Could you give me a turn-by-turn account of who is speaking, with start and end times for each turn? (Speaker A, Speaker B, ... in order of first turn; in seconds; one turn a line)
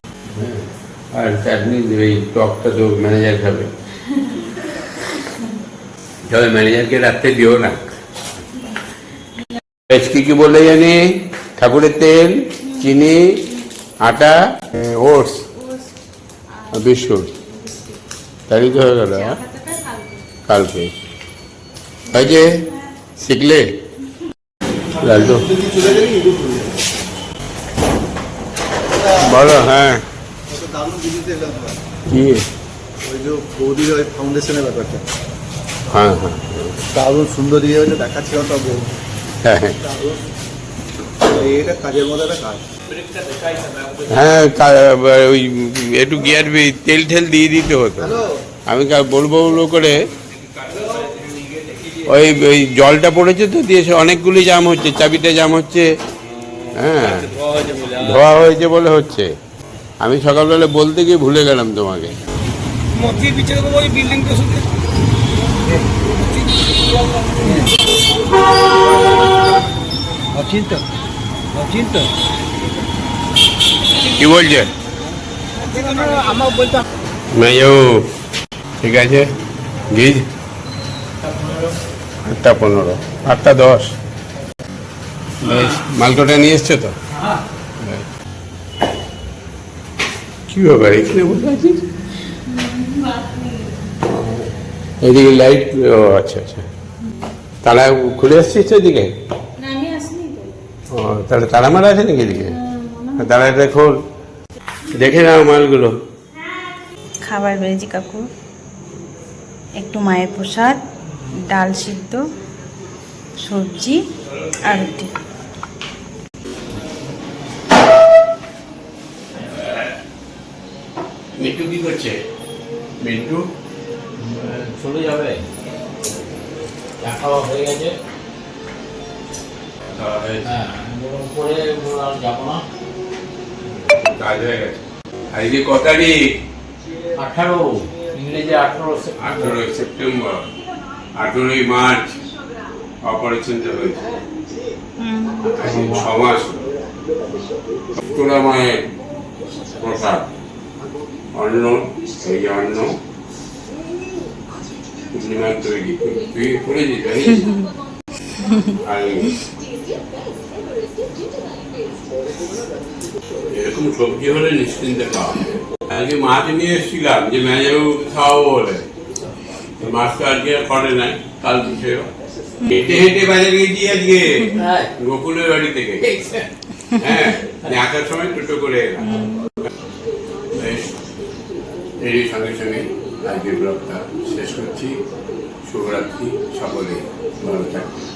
Speaker A: 0.3-3.7
Speaker A: 6.3-8.0
Speaker A: 9.9-13.2
Speaker A: 14.0-15.5
Speaker A: 16.7-17.3
Speaker A: 18.5-19.4
Speaker B: 19.2-20.2
Speaker A: 20.5-20.9
Speaker A: 22.1-22.5
Speaker A: 23.2-23.7
Speaker A: 25.0-25.6
Speaker C: 25.5-26.8
Speaker A: 29.2-30.0
Speaker C: 30.5-31.8
Speaker A: 32.1-32.4
Speaker C: 33.0-35.0
Speaker A: 35.9-36.8
Speaker C: 37.0-38.9
Speaker A: 39.4-39.8
Speaker C: 39.9-40.2
Speaker C: 41.3-42.6
Speaker D: 43.0-44.1
Speaker A: 44.1-50.0
Speaker D: 50.5-52.0
Speaker A: 52.0-55.9
Speaker A: 56.8-57.3
Speaker D: 57.1-58.2
Speaker A: 57.9-59.3
Speaker A: 60.0-62.2
Speaker D: 63.0-64.6
Speaker D: 65.8-66.2
Speaker D: 67.4-67.7
Speaker D: 70.4-70.8
Speaker D: 71.6-72.1
Speaker A: 74.0-74.7
Speaker D: 75.7-76.7
Speaker A: 77.3-78.0
Speaker A: 78.8-79.3
Speaker A: 79.9-80.2
Speaker D: 81.5-81.7
Speaker A: 82.2-83.9
Speaker A: 85.4-87.0
Speaker A: 87.8-88.1
Speaker A: 90.5-91.8
Speaker B: 92.5-93.8
Speaker A: 94.0-96.7
Speaker A: 97.6-99.1
Speaker B: 99.6-100.6
Speaker A: 100.9-102.6
Speaker B: 102.5-103.3
Speaker A: 103.2-104.0
Speaker A: 105.0-105.9
Speaker B: 107.3-108.2
Speaker B: 109.8-112.2
Speaker B: 113.4-114.0
Speaker B: 114.7-115.1
Speaker A: 119.4-119.9
Speaker A: 121.4-122.2
Speaker A: 123.0-123.4
Speaker A: 124.2-125.4
Speaker D: 127.0-128.0
Speaker A: 129.9-130.6
Speaker D: 130.5-132.6
Speaker A: 133.7-136.2
Speaker D: 137.2-139.6
Speaker A: 139.1-140.5
Speaker A: 141.2-142.2
Speaker A: 143.1-144.2
Speaker B: 145.0-145.6
Speaker A: 145.5-146.6
Speaker D: 145.7-146.0
Speaker A: 147.9-148.9
Speaker A: 149.8-150.3
Speaker A: 151.3-153.0
Speaker A: 155.1-157.5
Speaker A: 158.7-159.4
Speaker A: 163.5-168.9
Speaker A: 169.8-172.1
Speaker A: 172.7-179.3
Speaker B: 179.1-179.5
Speaker A: 180.5-180.9
Speaker A: 182.0-185.0
Speaker A: 185.7-188.0